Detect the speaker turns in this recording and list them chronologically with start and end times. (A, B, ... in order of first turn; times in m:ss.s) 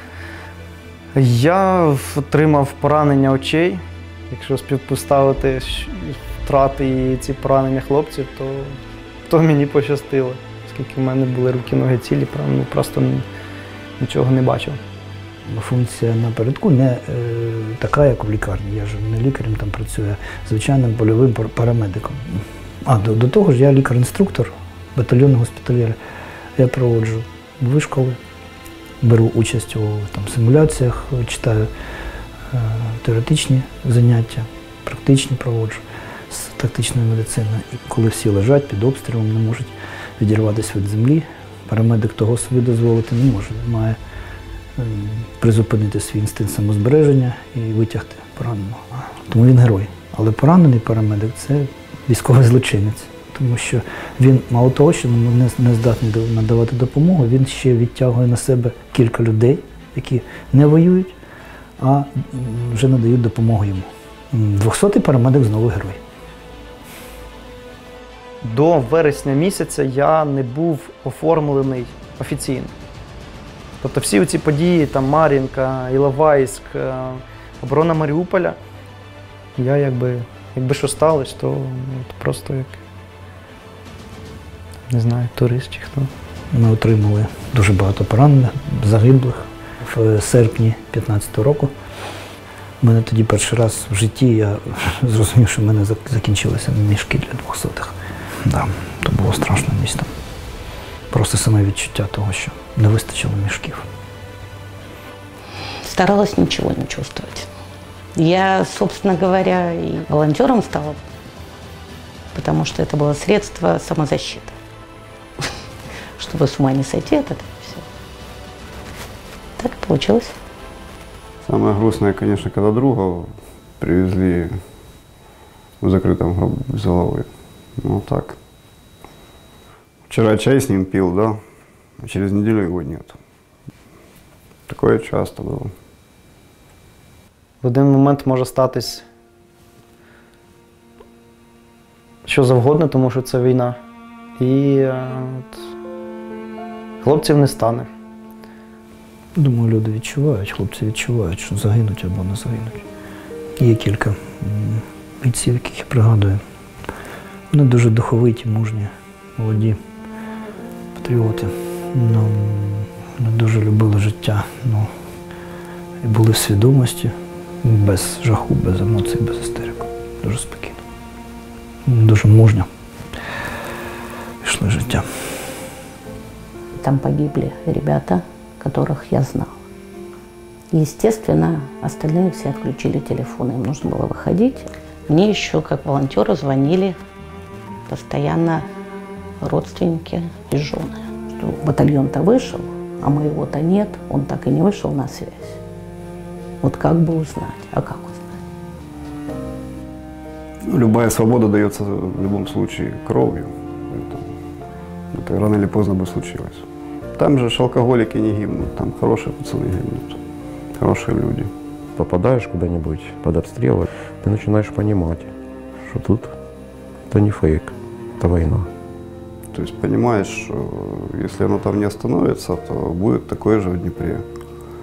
0:01.1-0:13.3 A
0:14.0-0:14.8 A
0:15.5-0:26.0 B
0:26.6-0:28.2 B
0:29.0-0:31.7 B
0:32.5-0:44.0 B
0:44.8-1:01.2 B
1:01.8-1:06.0 B
1:08.4-1:12.7 A
1:13.8-1:18.6 A
1:19.6-1:22.8 A
1:24.9-1:26.1 A
1:26.5-1:31.7 B
1:32.8-1:40.1 B
1:41.1-1:43.8 B
1:45.8-1:47.5 C
1:48.2-1:51.0 C
1:52.3-1:54.5 C
1:56.2-1:57.8 C
1:59.6-2:00.4 C
2:01.4-2:03.3 D
2:03.8-2:04.5 D
2:05.8-2:07.3 D
2:07.8-2:08.4 D
2:10.1-2:11.4 D
2:12.0-2:13.2 D
2:14.7-2:15.7 D
2:17.6-2:19.0 A
2:22.2-2:23.8 A
2:24.4-2:25.6 A
2:27.0-2:27.9 A
2:29.4-2:32.8 B
2:33.6-2:36.4 B
2:37.5-2:39.8 B
2:40.9-2:44.9 B
2:46.0-2:50.8 B
2:51.9-2:52.7 B
2:54.4-2:55.0 B
2:56.7-2:59.6 C
3:00.7-3:07.0 C
3:07.9-3:08.6 C
3:09.4-3:15.6 C
3:16.6-3:18.4 C
3:20.6-3:24.3 D
3:25.1-3:26.6 D
3:27.2-3:30.2 D
3:30.8-3:31.5 D
3:32.0-3:35.3 E
3:35.8-3:36.3 E
3:37.1-3:38.7 E
3:39.5-3:44.2 D